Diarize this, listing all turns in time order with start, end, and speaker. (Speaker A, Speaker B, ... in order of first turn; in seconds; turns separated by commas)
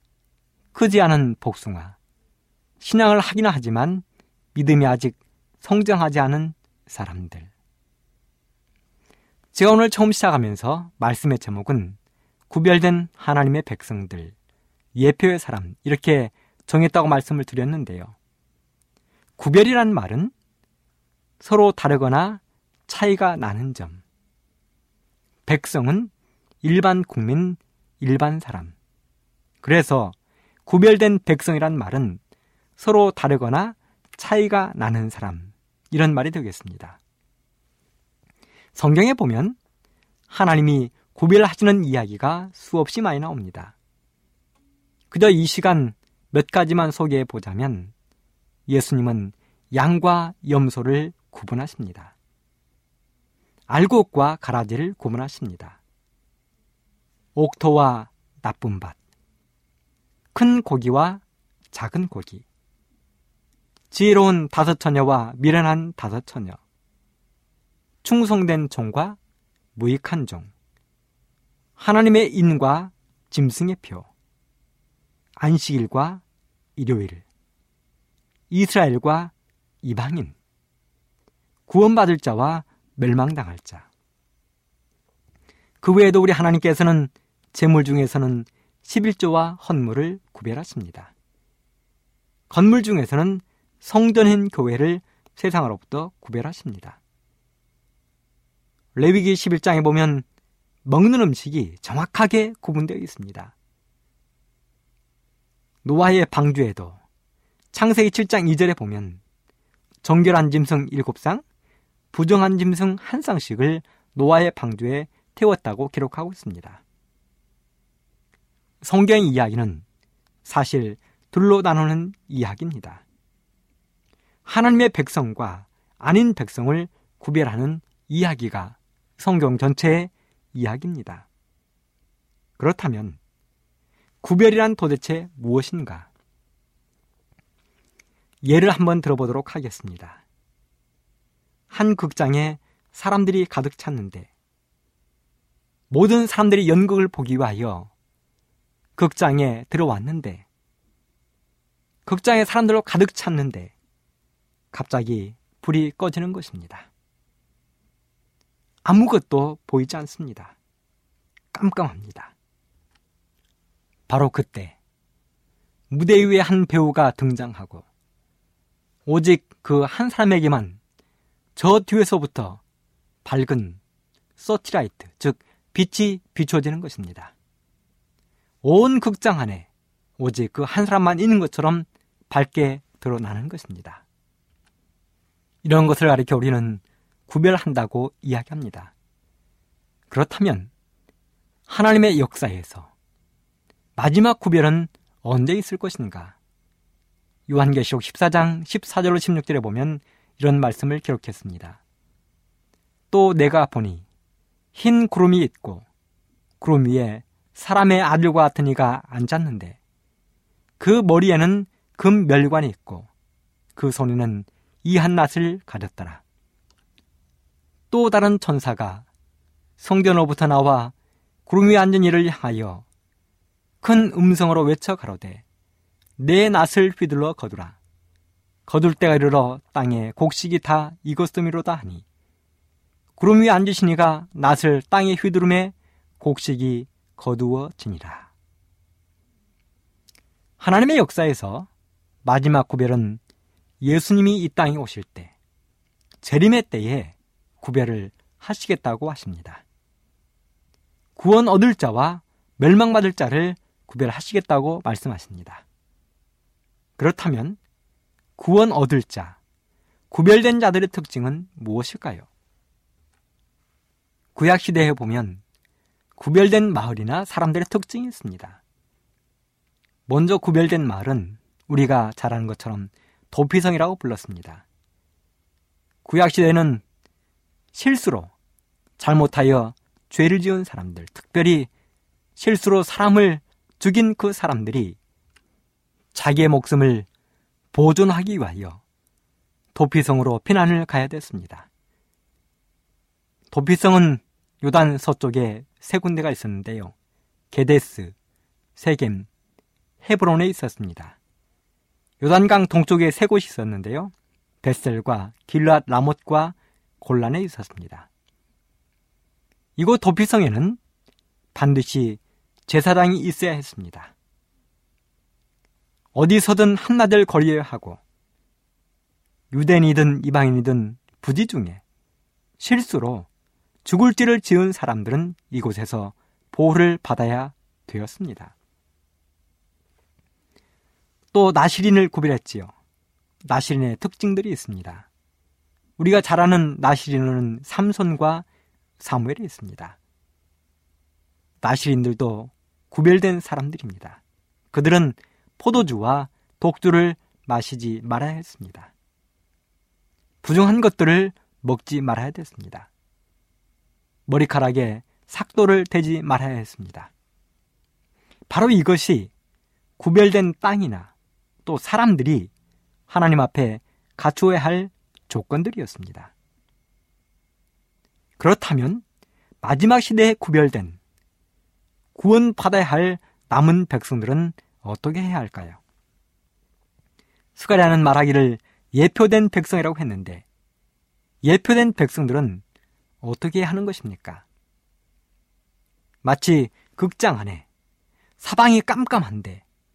Speaker A: 0.7-1.9, Speaker A: 2.8-4.0, Speaker A: 4.5-7.5, Speaker A: 9.5-12.0, Speaker A: 12.5-14.3, Speaker A: 14.9-18.1, Speaker A: 19.4-20.3, Speaker A: 21.4-24.0, Speaker A: 25.5-26.1, Speaker A: 26.6-28.7, Speaker A: 29.6-30.1, Speaker A: 30.7-32.2, Speaker A: 32.8-37.0, Speaker A: 38.8-39.6, Speaker A: 40.3-43.7, Speaker A: 45.1-47.9, Speaker A: 48.7-52.1, Speaker A: 53.7-55.8, Speaker A: 57.4-59.0, Speaker A: 60.3-61.2, Speaker A: 61.7-62.4, Speaker A: 63.9-66.6, Speaker A: 68.0-69.2, Speaker A: 69.8-70.5, Speaker A: 71.8-74.1, Speaker A: 75.4-76.2, Speaker A: 76.8-77.2, Speaker A: 78.5-79.3, Speaker A: 79.8-80.3, Speaker A: 81.7-83.8, Speaker A: 85.8-91.1, Speaker A: 92.5-97.0, Speaker A: 99.0-100.2, Speaker A: 100.8-103.5, Speaker A: 105.8-107.0, Speaker A: 107.7-109.2, Speaker A: 110.0-111.4, Speaker A: 112.1-116.8, Speaker A: 118.8-119.8, Speaker A: 120.5-123.0, Speaker A: 124.5-131.2, Speaker A: 132.6-133.2, Speaker A: 134.2-136.1, Speaker A: 138.4-140.2, Speaker A: 141.7-144.3, Speaker A: 145.9-147.9, Speaker A: 149.0-150.4, Speaker A: 152.1-153.7, Speaker A: 154.7-156.9, Speaker A: 158.8-160.5, Speaker A: 161.5-162.3, Speaker A: 164.1-164.7, Speaker A: 165.9-167.8, Speaker A: 169.1-170.8, Speaker A: 171.6-172.6, Speaker A: 173.2-173.8, Speaker A: 174.4-177.3, Speaker A: 178.6-179.7, Speaker A: 180.2-184.0, Speaker A: 185.6-188.9, Speaker A: 190.1-190.7, Speaker A: 191.7-192.9, Speaker A: 194.0-196.3, Speaker A: 197.5-201.8, Speaker A: 203.1-204.1, Speaker A: 204.8-205.8, Speaker A: 206.6-209.8, Speaker A: 210.8-213.1, Speaker A: 213.8-216.2, Speaker A: 217.9-219.1, Speaker A: 219.8-220.9, Speaker A: 221.5-222.8, Speaker A: 223.8-225.4, Speaker A: 226.2-227.8, Speaker A: 228.7-232.0, Speaker A: 233.2-238.3, Speaker A: 240.6-241.7, Speaker A: 242.2-243.2, Speaker A: 243.8-245.3, Speaker A: 246.2-249.6, Speaker A: 251.2-255.6, Speaker A: 257.0-257.6, Speaker A: 258.4-259.4, Speaker A: 260.1-262.3, Speaker A: 264.4-265.4, Speaker A: 266.2-268.6, Speaker A: 270.1-274.6, Speaker A: 276.1-276.8, Speaker A: 277.7-278.3, Speaker A: 279.0-281.7, Speaker A: 282.4-285.0, Speaker A: 286.1-287.1, Speaker A: 287.7-288.8, Speaker A: 289.8-291.7, Speaker A: 293.5-296.9, Speaker A: 297.5-298.1, Speaker A: 298.8-299.3, Speaker A: 300.0-301.1, Speaker A: 302.2-308.1, Speaker A: 309.8-310.8, Speaker A: 311.6-314.1, Speaker A: 316.1-318.0, Speaker A: 319.5-321.8, Speaker A: 322.6-323.3, Speaker A: 323.8-328.5, Speaker A: 331.3-332.7, Speaker A: 333.4-335.1, Speaker A: 336.0-338.4, Speaker A: 339.0-340.0, Speaker A: 341.6-344.2, Speaker A: 344.7-348.9, Speaker A: 350.4-352.9, Speaker A: 354.3-357.1, Speaker A: 358.5-359.3, Speaker A: 360.0-361.1, Speaker A: 361.6-362.5, Speaker A: 363.1-366.3, Speaker A: 368.4-369.0, Speaker A: 369.6-371.0, Speaker A: 372.1-375.8, Speaker A: 377.6-380.4, Speaker A: 381.4-382.6, Speaker A: 383.2-384.4, Speaker A: 386.2-387.6, Speaker A: 388.4-389.6